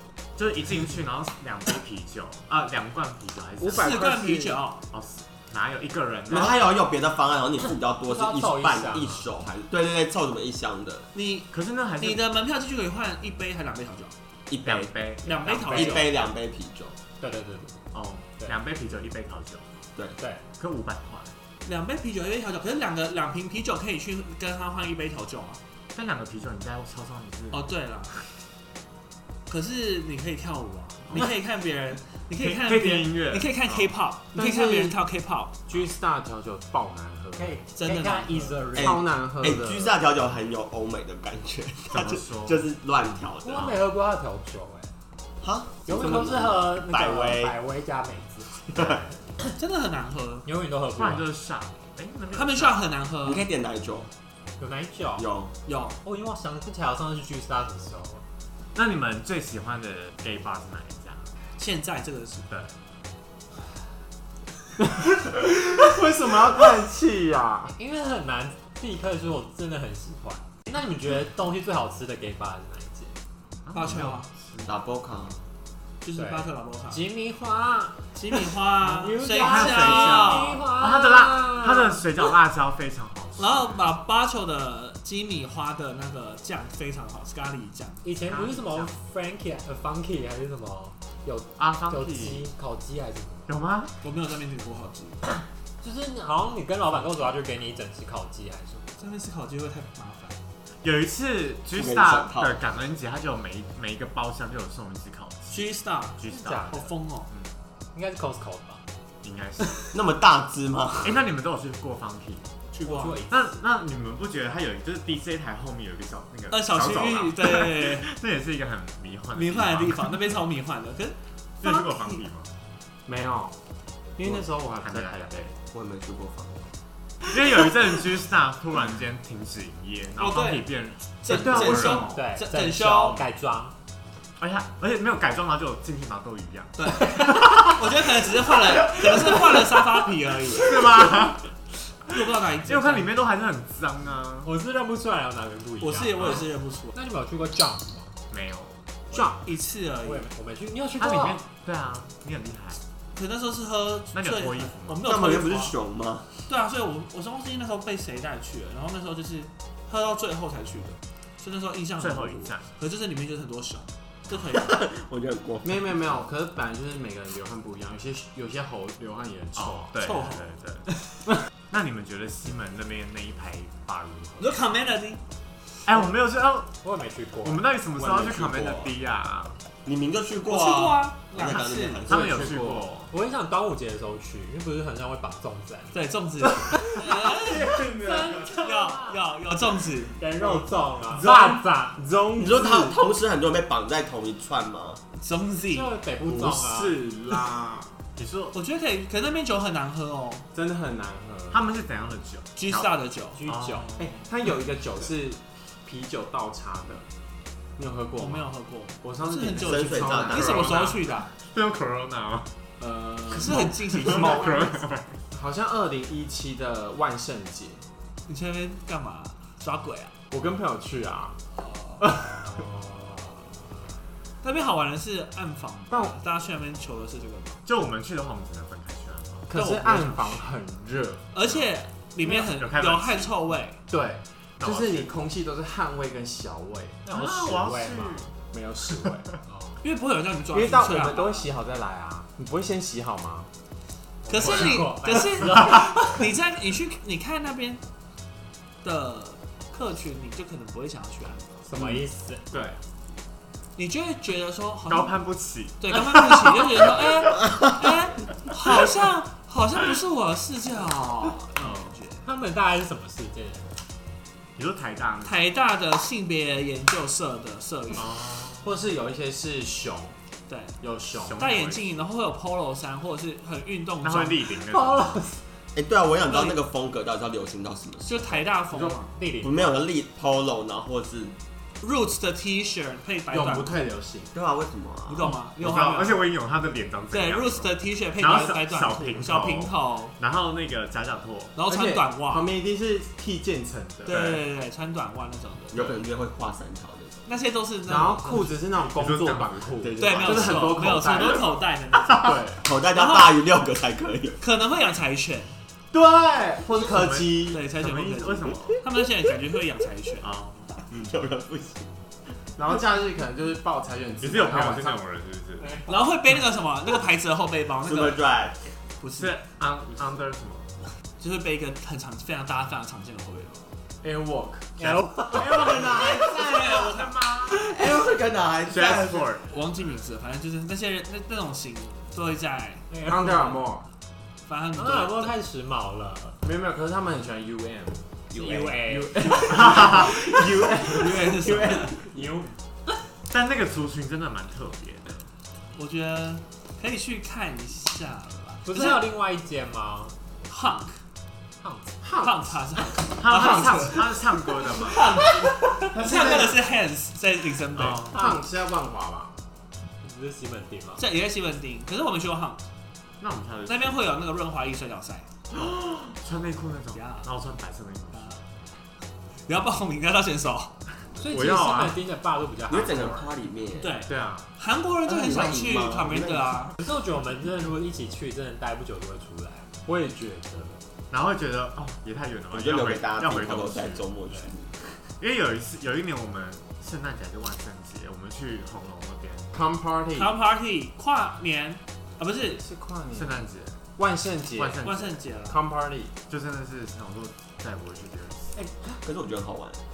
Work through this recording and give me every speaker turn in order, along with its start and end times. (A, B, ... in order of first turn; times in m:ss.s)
0:00.4-0:04.0 A
0:03.6-0:04.6 B
0:03.7-0:04.8 C
0:04.9-0:06.6 A
0:06.3-0:11.1 D
0:08.1-0:09.3 E
0:11.1-0:14.1 C
0:11.5-0:12.2 A
0:14.5-0:14.9 D
0:14.6-0:16.0 A
0:15.2-0:16.1 C
0:15.7-0:17.0 D
0:17.2-0:17.8 E
0:17.9-0:19.7 A
0:20.6-0:21.3 A
0:21.6-0:25.6 C
0:25.9-0:27.7 A
0:27.5-0:28.2 C
0:29.5-0:35.6 C
0:32.4-0:33.9 A
0:34.4-0:35.0 B
0:35.7-0:37.6 B
0:37.4-0:39.0 E
0:37.8-0:38.6 C
0:38.8-0:43.7 D
0:38.8-0:40.0 B
0:41.9-0:42.6 A
0:43.4-0:44.9 E
0:45.4-0:47.6 D
0:45.9-0:49.5 E
0:49.6-0:50.5 C
0:50.4-0:51.3 E
0:51.0-0:52.9 A
0:52.3-0:53.4 C
0:53.2-0:54.1 D
0:54.6-0:55.3 E
0:55.2-0:55.5 D
0:55.7-0:56.0 C
0:56.0-0:58.2 E
0:58.8-1:01.3 A
1:01.6-1:02.5 C
1:02.5-1:02.7 A
1:05.0-1:07.7 B
1:07.7-1:13.2 E
1:13.7-1:14.8 A
1:13.7-1:14.3 C
1:14.6-1:15.4 D
1:16.0-1:17.0 C
1:16.2-1:22.0 E
1:18.2-1:20.6 C
1:19.4-1:23.9 A
1:23.4-1:28.0 C
1:28.0-1:33.5 E
1:31.6-1:32.5 A
1:33.5-1:33.9 A
1:34.0-1:35.2 C
1:35.8-1:39.0 E
1:39.0-1:40.4 C
1:40.8-1:45.6 A
1:41.8-1:42.6 D
1:45.5-1:47.3 C
1:46.2-1:47.5 A
1:46.2-1:46.9 E
1:47.9-1:48.8 E
1:49.2-1:49.8 A
1:49.9-1:51.2 D
1:51.0-1:52.6 A
1:52.8-1:53.2 C
1:52.8-1:53.5 E
1:53.3-2:00.4 A
1:56.5-1:58.1 C
1:59.3-2:02.2 C
2:01.6-2:02.5 A
2:03.1-2:03.6 B
2:04.2-2:05.5 B
2:04.3-2:05.5 A
2:05.7-2:06.7 D
2:07.3-2:12.1 A
2:10.2-2:10.7 C
2:11.2-2:13.2 C
2:11.3-2:12.2 B
2:12.1-2:13.8 E
2:14.4-2:18.1 A
2:16.8-2:21.1 C
2:18.7-2:19.7 A
2:20.5-2:21.5 A
2:22.1-2:23.1 C
2:22.2-2:24.5 A
2:24.4-2:28.2 E
2:25.8-2:26.9 C
2:28.3-2:28.8 A
2:29.1-2:30.3 C
2:30.0-2:31.4 E
2:31.0-2:32.8 A
2:33.1-2:35.7 C
2:34.1-2:35.1 A
2:35.0-2:36.3 D
2:36.5-2:44.8 C
2:42.0-2:42.7 A
2:44.5-2:46.0 D
2:45.6-2:49.9 B
2:49.6-2:50.9 A
2:50.0-2:50.5 C
2:51.7-2:54.6 A
2:54.4-2:55.2 C
2:55.8-2:56.7 A
2:56.8-2:57.7 E
2:57.4-2:59.6 A
2:58.0-2:58.9 D
2:59.8-3:02.6 D
3:00.4-3:02.0 C
3:02.1-3:03.1 A
3:02.1-3:02.9 B
3:03.1-3:06.0 E
3:05.9-3:07.8 C
3:06.7-3:09.2 E
3:07.1-3:08.5 B
3:08.5-3:10.2 C
3:10.2-3:12.0 E
3:11.1-3:13.0 B
3:12.4-3:15.0 D
3:15.2-3:15.9 C
3:15.7-3:17.1 E
3:16.2-3:18.0 B
3:18.2-3:18.6 A
3:18.5-3:20.5 C
3:20.5-3:21.6 B
3:21.5-3:24.1 A
3:22.6-3:23.4 C
3:23.4-3:23.9 E
3:24.0-3:27.1 B
3:27.8-3:28.5 B
3:28.2-3:31.3 C
3:29.0-3:30.7 B
3:29.6-3:30.9 D
3:30.4-3:32.5 A
3:32.8-3:34.8 B
3:33.3-3:34.6 C
3:33.4-3:35.1 A
3:35.3-3:37.8 B
3:38.3-3:40.1 C
3:40.3-3:41.4 B
3:41.6-3:42.0 C
3:42.0-3:42.7 B
3:44.4-3:47.6 C
3:45.9-3:46.2 B
3:47.7-3:49.5 A
3:49.5-3:51.3 B
3:49.5-3:50.5 C
3:51.3-3:53.8 C
3:51.4-3:51.7 A
3:52.3-3:53.3 A
3:53.9-3:57.0 B
3:54.6-3:55.2 A
3:57.0-3:58.3 E
3:57.1-3:58.3 A
3:58.5-3:59.3 B
3:59.5-3:59.8 E
3:59.8-4:01.5 C
4:00.5-4:03.5 B
4:04.3-4:06.2 E
4:04.3-4:07.8 C
4:04.3-4:04.8 A
4:08.8-4:11.6 C
4:11.7-4:12.5 E
4:11.8-4:12.8 B
4:13.8-4:15.2 C
4:14.9-4:16.3 A
4:15.8-4:22.2 C
4:22.2-4:23.8 E
4:24.6-4:25.4 A
4:25.2-4:28.1 C
4:28.0-4:28.7 A
4:28.6-4:30.2 B
4:30.5-4:30.8 C
4:30.8-4:31.4 B
4:31.2-4:32.1 A
4:31.4-4:34.5 C
4:34.0-4:35.2 A
4:34.7-4:35.4 E
4:35.8-4:38.5 D
4:36.3-4:36.6 C
4:38.1-4:39.2 C
4:39.2-4:39.8 E
4:39.4-4:41.4 D
4:41.8-4:43.8 C
4:43.3-4:44.3 B
4:44.3-4:45.3 D
4:45.1-4:46.2 C
4:45.6-4:51.6 A
4:47.1-4:50.1 C
4:51.6-4:52.5 C
4:51.7-4:54.2 B
4:54.0-4:55.9 C
4:54.1-4:54.4 A
4:55.7-4:57.2 D
4:57.3-4:58.6 C
4:57.9-5:01.5 B
4:58.9-4:59.7 A
4:59.8-5:01.4 D
5:00.0-5:03.4 C
5:02.2-5:02.6 B
5:02.6-5:04.4 D
5:04.4-5:05.5 C
5:05.9-5:07.6 B
5:06.8-5:08.8 A
5:07.5-5:10.3 C
5:10.2-5:10.8 A
5:10.9-5:11.9 D
5:12.6-5:15.0 B
5:14.2-5:15.8 A
5:15.8-5:18.2 C
5:17.8-5:18.6 D
5:19.0-5:19.4 C
5:19.2-5:20.8 A
5:21.2-5:23.6 C
5:24.0-5:24.8 B
5:24.8-5:25.5 E
5:24.8-5:27.6 A
5:25.4-5:29.3 D
5:26.0-5:27.3 C
5:28.7-5:29.5 A
5:29.5-5:32.9 C
5:32.9-5:33.6 E
5:33.0-5:33.9 B
5:34.5-5:35.3 C
5:34.8-5:36.4 E
5:36.4-5:42.5 B
5:38.3-5:39.5 E
5:39.5-5:40.2 A
5:40.3-5:42.0 C
5:42.2-5:42.4 E
5:43.3-5:45.3 A
5:45.8-5:49.0 C
5:48.7-5:50.2 E
5:50.5-5:51.0 C
5:51.6-5:52.0 E
5:52.0-5:52.6 B
5:52.2-5:58.2 C
5:53.2-5:55.2 A
5:53.3-5:54.1 B
5:54.9-5:56.6 B
5:57.7-5:58.2 A
5:58.1-5:59.3 B
6:00.0-6:01.0 E
6:01.0-6:02.6 C
6:03.2-6:04.1 A
6:03.7-6:05.3 C
6:05.5-6:08.4 A
6:06.9-6:07.3 C
6:08.2-6:08.4 C
6:09.5-6:10.7 C
6:11.2-6:13.3 E
6:11.2-6:12.0 A
6:12.7-6:14.0 D
6:13.8-6:16.7 C
6:14.1-6:14.4 A
6:15.0-6:16.6 D
6:16.8-6:19.7 E
6:19.9-6:20.8 B
6:21.1-6:24.1 A
6:22.5-6:25.0 D
6:25.2-6:29.5 A
6:29.5-6:30.3 B
6:30.2-6:32.6 C
6:32.6-6:33.4 B
6:33.1-6:33.8 A
6:34.0-6:34.8 B
6:34.5-6:35.2 A
6:34.8-6:35.6 C
6:35.5-6:36.1 B
6:36.3-6:38.5 A
6:38.6-6:38.9 B
6:38.9-6:39.8 D